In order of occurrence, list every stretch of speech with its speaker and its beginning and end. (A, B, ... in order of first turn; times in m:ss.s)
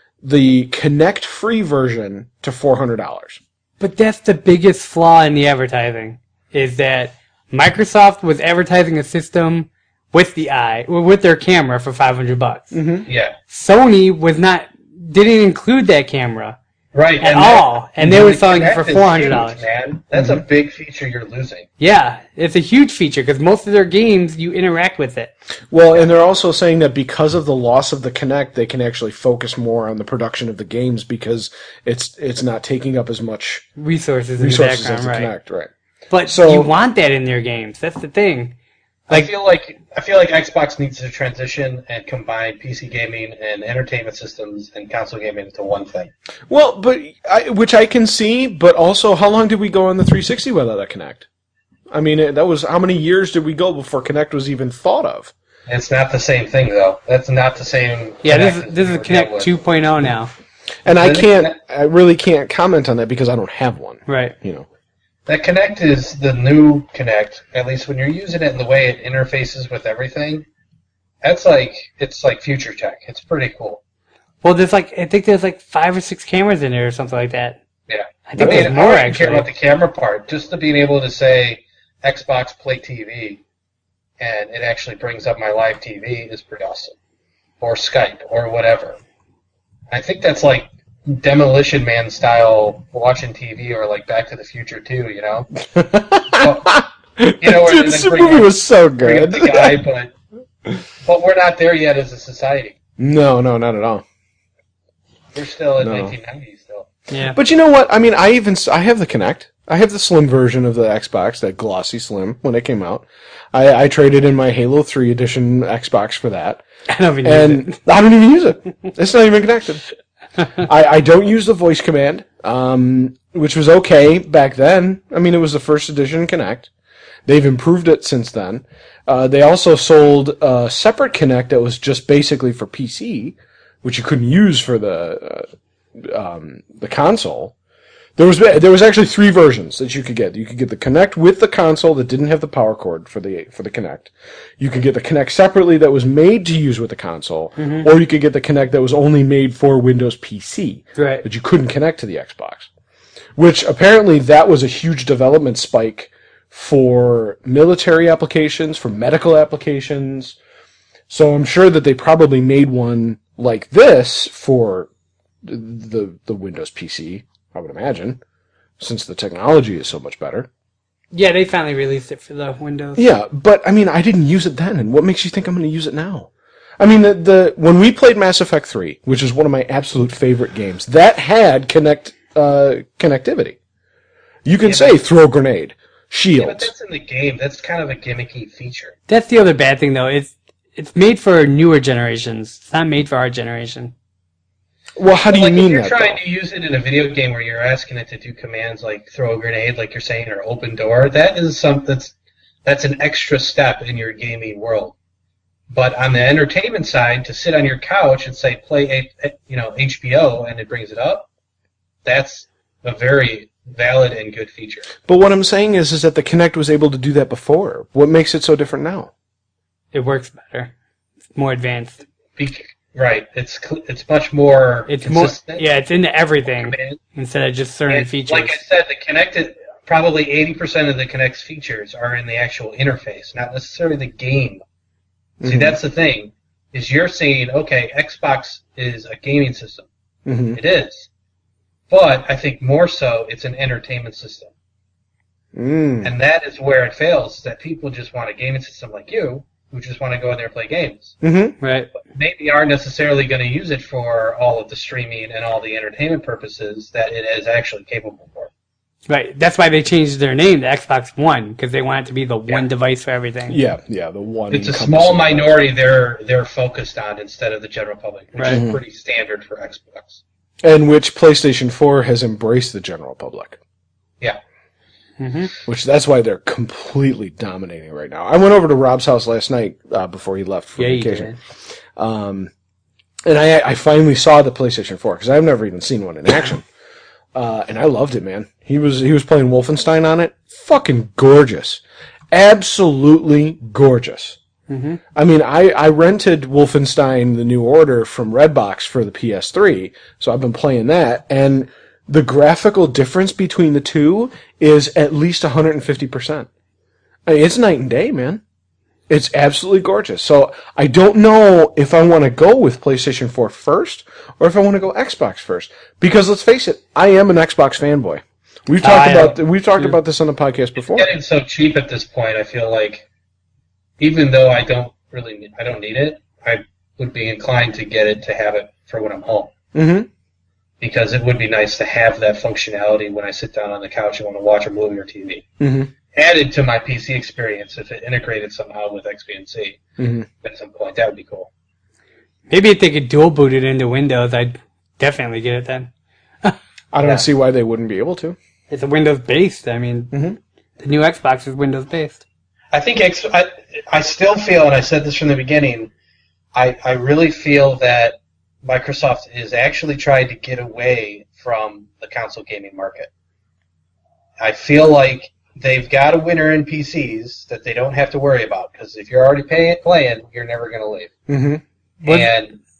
0:00.2-0:03.4 A
0:03.8-0:12.8 B
0:12.7-0:13.1 A
0:13.1-0:13.4 C
0:13.5-0:16.6 B
0:16.9-0:21.7 C
0:17.2-0:19.6 B
0:20.1-0:20.4 A
0:21.8-0:25.3 B
0:25.7-0:33.7 A
0:33.8-0:35.3 B
0:34.4-0:35.7 A
0:36.1-0:38.6 B
0:36.2-0:36.7 A
0:39.1-0:46.1 C
0:46.5-0:51.2 A
0:51.9-0:55.3 A
0:55.7-0:59.5 C
0:58.2-1:00.3 B
1:00.8-1:04.7 A
1:00.9-1:01.5 C
1:04.1-1:04.3 B
1:05.3-1:10.5 C
1:11.2-1:13.8 C
1:14.4-1:17.6 B
1:17.9-1:23.4 C
1:18.3-1:19.5 B
1:18.4-1:18.7 A
1:24.2-1:27.0 C
1:27.6-1:29.0 C
1:29.9-1:35.5 C
1:35.6-1:39.8 A
1:36.3-1:36.8 C
1:37.4-1:40.1 C
1:41.0-1:42.8 C
1:43.0-1:44.0 A
1:45.3-1:46.9 C
1:45.8-1:46.1 A
1:47.1-1:47.4 B
1:47.3-1:56.6 A
1:56.9-1:57.8 B
1:57.2-1:59.8 A
2:00.6-2:06.7 A
2:07.3-2:17.5 A
2:18.2-2:32.7 A
2:27.6-2:27.9 B
2:31.0-2:31.2 B
2:33.4-2:40.4 A
2:41.1-2:44.9 A
2:45.4-2:48.2 A
2:48.8-2:50.5 A
2:51.1-2:53.0 B
2:53.0-3:03.6 A
3:04.4-3:06.7 A
3:04.6-3:05.0 C
3:06.4-3:09.0 C
3:09.1-3:13.9 B
3:15.0-3:16.2 A
3:15.3-3:22.1 C
3:22.6-3:25.0 C
3:25.7-3:31.3 C
3:32.0-3:34.9 C
3:35.0-3:39.1 A
3:39.9-3:40.7 B
3:41.3-3:42.0 B
3:42.4-3:45.6 C
3:44.9-3:48.6 B
3:46.5-3:47.0 C
3:47.9-3:54.6 C
3:55.4-3:55.8 A
3:55.4-3:59.9 C
4:00.2-4:00.6 A
4:00.5-4:01.1 C
4:01.9-4:04.5 C
4:05.5-4:06.1 A
4:06.0-4:11.2 C
4:11.2-4:11.6 A
4:11.6-4:11.9 B
4:12.0-4:18.5 C
4:19.1-4:23.6 B
4:23.5-4:25.6 A
4:24.5-4:30.2 C
4:28.4-4:28.6 B
4:28.5-4:28.8 A
4:30.6-4:33.6 A
4:35.2-4:35.5 B
4:35.7-4:41.3 A
4:40.8-4:41.4 B
4:42.0-4:42.5 A
4:43.2-4:46.6 A
4:47.3-4:54.4 A
4:54.7-4:55.0 B
4:55.1-5:06.5 A
5:07.3-5:08.4 A
5:09.1-5:21.1 A
5:18.8-5:20.0 B
5:20.8-5:23.0 C
5:24.0-5:29.5 C
5:29.7-5:30.1 A
5:30.8-5:35.5 C
5:35.6-5:35.9 A
5:36.1-5:39.8 C
5:40.0-5:40.3 A
5:40.4-5:41.5 C
5:42.5-5:45.9 B
5:46.9-5:48.4 A
5:48.7-5:50.1 B
5:50.1-5:50.4 A
5:50.8-5:52.2 B
5:52.7-5:55.9 C
5:56.5-6:03.1 C
6:04.4-6:11.1 C
6:11.3-6:11.6 A
6:12.0-6:12.6 C
6:12.0-6:12.3 B